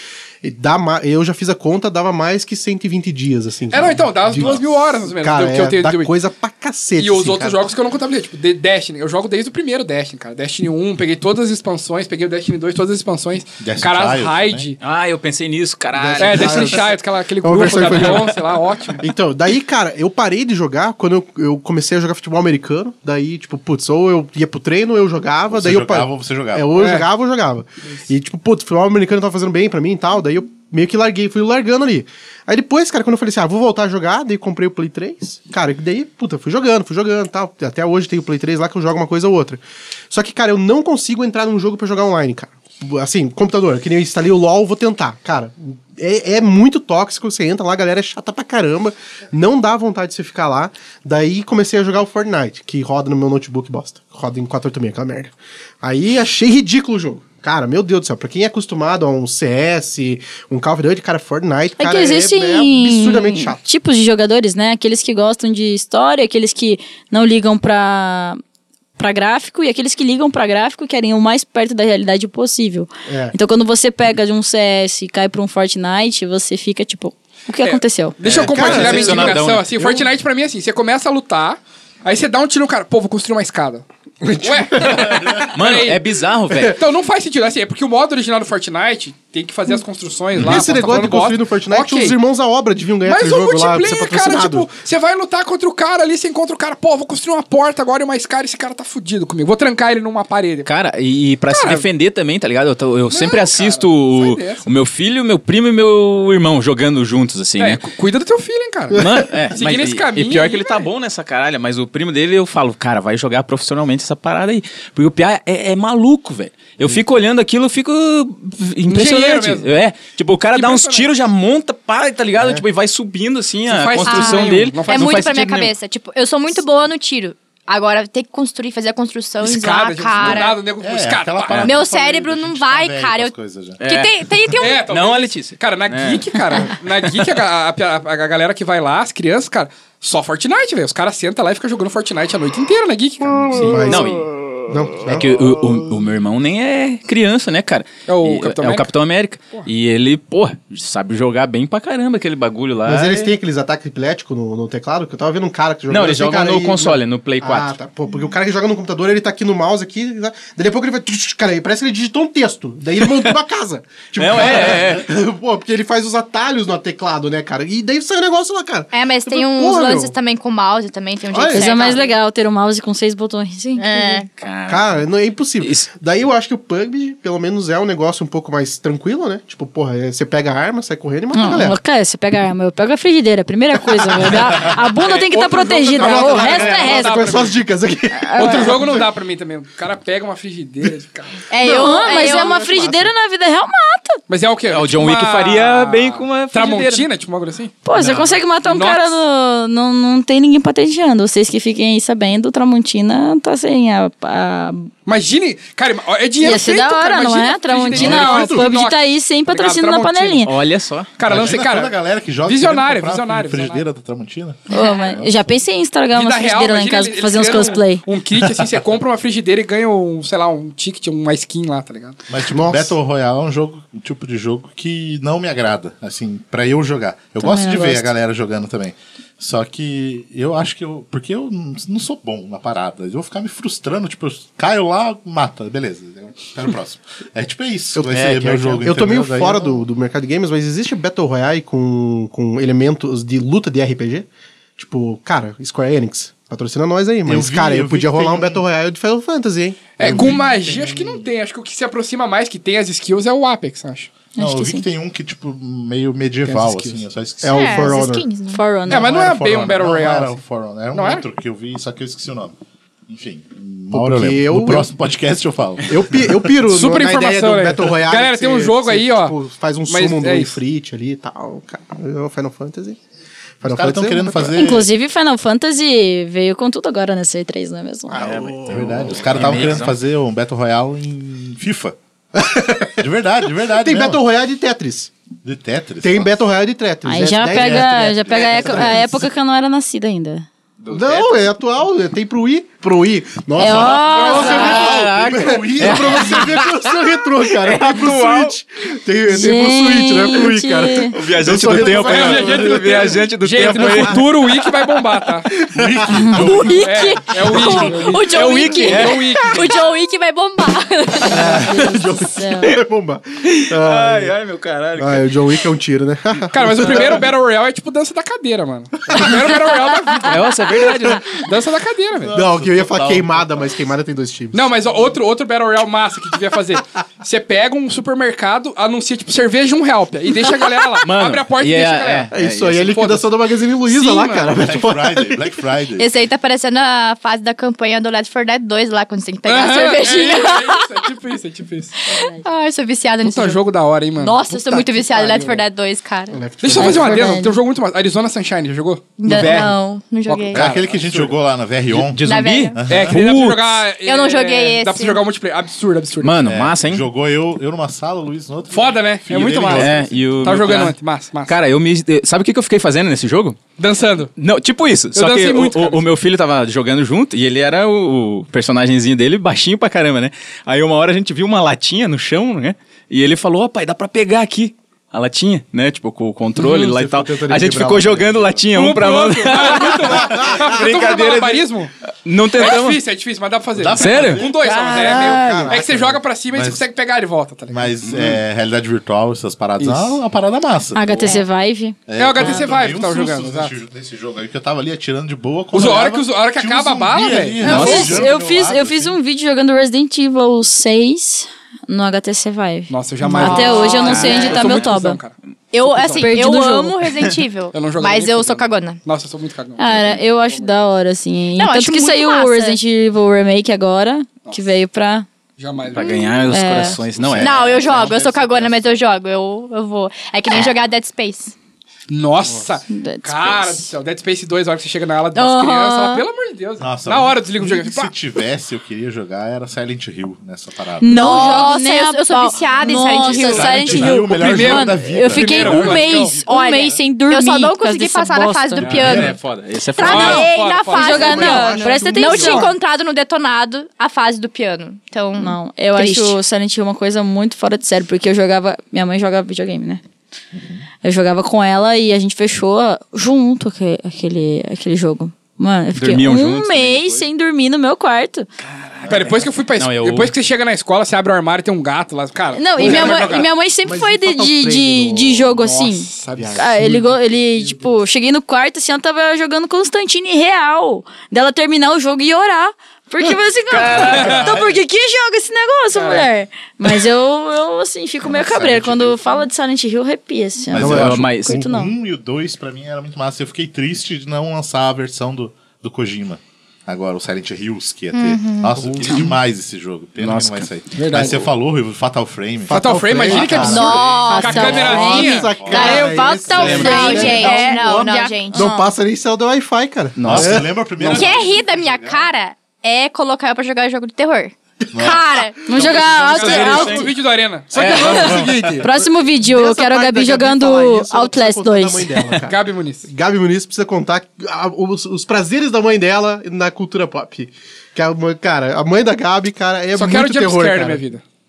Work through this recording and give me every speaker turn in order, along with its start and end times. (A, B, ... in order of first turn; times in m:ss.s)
0:00.4-0:07.7 A
0:03.7-0:06.1 B
0:03.7-0:04.7 C
0:07.0-0:14.8 B
0:13.6-0:14.7 C
0:14.8-0:16.8 D
0:15.9-0:18.4 A
0:16.2-0:19.0 B
0:19.0-1:03.6 A
0:25.5-0:26.7 C
0:26.8-0:27.0 B
1:01.8-1:08.4 E
1:09.0-1:18.2 E
1:13.1-1:13.4 A
1:17.6-1:23.8 B
1:18.2-1:19.9 D
1:18.4-1:20.0 A
1:24.2-1:25.3 A
1:24.4-1:26.0 B
1:25.5-1:26.8 D
1:26.6-1:32.2 B
1:30.4-1:34.7 A
1:33.0-1:40.7 B
1:40.6-1:47.8 D
1:41.5-1:41.8 B
1:43.1-1:44.7 B
1:47.6-1:50.7 B
1:48.9-2:05.7 D
1:49.0-1:49.2 A
1:58.9-1:59.7 B
2:00.5-2:01.1 B
2:03.6-2:05.3 B
2:04.0-2:10.6 F
2:09.4-2:11.7 B
2:10.2-2:13.8 C
2:11.6-2:14.9 F
2:13.8-2:14.1 D
2:14.6-2:23.9 B
2:14.8-2:16.7 D
2:23.5-2:25.2 A
2:23.6-2:24.3 D
2:25.0-2:33.3 D
2:28.1-2:28.9 B
2:32.8-2:50.1 A
2:35.9-2:37.7 D
2:44.2-2:45.0 D
2:44.3-2:44.9 C
2:48.9-2:52.1 F
2:51.3-2:52.0 A
2:51.5-2:54.2 E
2:53.8-2:54.3 F
2:54.4-2:54.9 D
2:54.7-3:01.8 A
2:55.6-2:55.9 D
3:01.3-3:07.4 E
3:03.9-3:04.5 A
3:05.0-3:07.6 B
3:05.9-3:09.1 A
3:08.1-3:08.8 E
3:08.4-3:11.4 B
3:11.5-3:12.7 F
3:11.6-3:14.2 E
3:12.6-3:13.1 A
3:14.3-3:17.8 B
3:14.7-3:17.1 D
3:17.8-3:24.9 E
3:18.0-3:18.3 D
3:18.6-3:19.2 B
3:25.0-3:30.5 B
3:26.4-3:30.5 E
3:27.9-3:28.7 A
3:30.4-3:31.5 D
3:31.2-3:33.8 B
3:31.2-3:34.6 C
3:34.7-3:38.0 E
3:36.1-3:42.2 B
3:42.3-3:59.8 C
3:42.4-3:43.0 A
3:47.4-3:48.1 E
3:57.9-4:10.4 A
4:07.2-4:08.6 C
4:10.0-4:14.1 B
4:10.0-4:11.2 C
4:14.4-4:14.8 E
4:14.4-4:18.0 C
4:16.4-4:17.0 B
4:17.4-4:18.3 A
4:17.5-4:18.6 F
4:18.5-4:19.1 E
4:18.9-4:22.5 C
4:18.9-4:20.4 B
4:20.9-4:21.2 B
4:23.1-4:26.5 C
4:23.9-4:24.9 A
4:25.9-4:33.0 A
4:26.7-4:29.3 B
4:29.9-4:30.6 B
4:33.6-4:34.6 A
4:33.6-4:34.9 C
4:34.5-4:38.2 E
4:38.1-4:39.8 A
4:38.2-4:40.0 D
4:38.7-4:42.0 C
4:42.3-4:45.1 A
4:43.0-4:44.2 C
4:45.4-4:46.3 C
4:46.0-4:49.3 A
4:47.0-4:50.4 E
4:47.5-4:49.1 C
4:50.8-4:51.4 D
4:50.9-5:03.1 A
4:53.6-4:54.8 E
4:53.9-4:56.5 C
4:54.1-4:56.8 D
4:57.5-4:58.5 D
4:59.3-5:01.1 E
5:01.1-5:04.7 D
5:01.6-5:02.8 C
5:02.0-5:05.5 B
5:05.7-5:06.9 C
5:05.8-5:06.5 A
5:06.1-5:09.8 E
5:06.7-5:09.8 B
5:07.5-5:08.2 C
5:08.3-5:09.6 D
5:09.4-5:11.4 F
5:11.2-5:12.7 E
5:11.3-5:14.3 A
5:11.4-5:11.7 D
5:13.5-5:15.3 D
5:15.0-5:17.2 A
5:16.5-5:22.3 B
5:20.2-5:21.4 D
5:22.2-5:23.6 C
5:22.3-5:24.8 A
5:24.5-5:32.3 B
5:31.0-5:32.9 D
5:32.3-5:35.6 A
5:32.8-5:33.3 B
5:33.8-5:34.5 B
5:34.5-5:36.1 C
5:36.0-5:40.8 F
5:39.4-5:42.0 B
5:42.1-5:43.6 F
5:42.1-5:42.4 E
5:43.2-5:44.5 B
5:44.2-5:46.4 F
5:44.5-5:45.3 A
5:45.1-5:45.6 B
5:46.3-5:47.4 A
5:46.6-5:49.7 B
5:46.8-5:47.6 E
5:49.2-5:50.6 F
5:50.3-5:50.5 B
5:50.5-5:53.2 C
5:50.5-5:51.3 A
5:51.9-5:53.8 D
5:52.2-5:52.9 F
5:52.9-5:56.4 B
5:54.0-5:55.2 F
5:56.2-5:57.1 D
5:56.4-6:00.8 C
5:58.7-6:01.6 B
5:59.7-6:03.6 D
6:03.8-6:04.3 B
6:04.4-6:21.6 D
6:05.1-6:06.1 B
6:16.6-6:18.5 A
6:18.7-6:21.9 B
6:22.2-6:23.0 D
6:22.6-6:27.9 B
6:23.8-6:24.5 C
6:23.9-6:25.8 D
6:24.9-6:26.2 A
6:26.5-6:26.8 C
6:27.7-6:31.4 C
6:28.0-6:28.4 D
6:29.8-6:30.2 B
6:30.9-6:32.6 E
6:32.1-6:39.2 C
6:32.2-6:33.7 B
6:35.7-6:38.1 B
6:37.6-6:38.3 D
6:37.6-6:45.2 E
6:42.9-6:45.4 B
6:43.5-6:44.9 D
6:43.7-6:44.3 F
6:45.7-6:49.0 F
6:46.0-6:46.2 B
6:46.2-6:47.0 E
6:47.7-6:50.7 B
6:49.8-6:55.3 E
6:51.6-6:52.8 F
6:55.6-6:56.5 B
6:55.9-6:58.0 D
6:56.0-6:56.3 F
6:56.5-6:57.0 E
6:57.1-6:58.7 C
6:57.4-7:01.5 F
7:02.1-7:08.1 B
7:02.9-7:03.9 E
7:05.3-7:06.2 E
7:06.8-7:11.6 C
7:11.0-7:18.9 E
7:11.1-7:14.1 F
7:12.6-7:17.0 C
7:14.0-7:16.4 B
7:16.4-7:19.4 F
7:18.8-7:20.5 D
7:18.8-7:19.4 C
7:19.9-7:26.4 F
7:20.0-7:21.6 B
7:20.9-7:22.7 E
7:21.1-7:22.7 A
7:25.4-7:30.0 E
7:30.5-7:30.8 C
7:31.0-7:38.5 E
7:35.9-7:37.2 D
7:38.7-7:40.3 D
7:39.1-7:43.5 B
7:42.6-8:01.9 E
7:42.8-7:43.3 A
7:43.8-7:45.6 A
7:45.6-7:46.9 B
7:46.3-7:47.8 A
7:53.7-7:54.4 D
7:54.0-7:54.8 C
7:54.2-7:54.4 B
7:55.9-7:56.3 B
7:58.2-7:59.2 C
8:00.7-8:14.1 C
8:00.7-8:01.6 A
8:00.8-8:01.6 D
8:08.1-8:08.8 F
8:08.8-8:09.3 A
8:10.2-8:10.7 D
8:11.0-8:11.4 B
8:12.6-8:21.2 A
8:12.7-8:15.6 B
8:13.5-8:18.7 F
8:14.2-8:15.5 E
8:15.6-8:17.3 C
8:16.5-8:17.5 D
8:16.8-8:18.9 E
8:20.2-8:20.7 D
8:20.2-8:22.2 C
8:21.0-8:25.8 F
8:24.9-8:26.9 C
8:25.6-8:27.1 E
8:25.8-8:28.8 B
8:26.4-8:27.1 D
8:27.7-8:41.0 A
8:27.7-8:28.5 D
8:28.0-8:32.1 E
8:28.0-8:28.8 C
8:32.4-8:33.0 B
8:40.0-8:41.2 B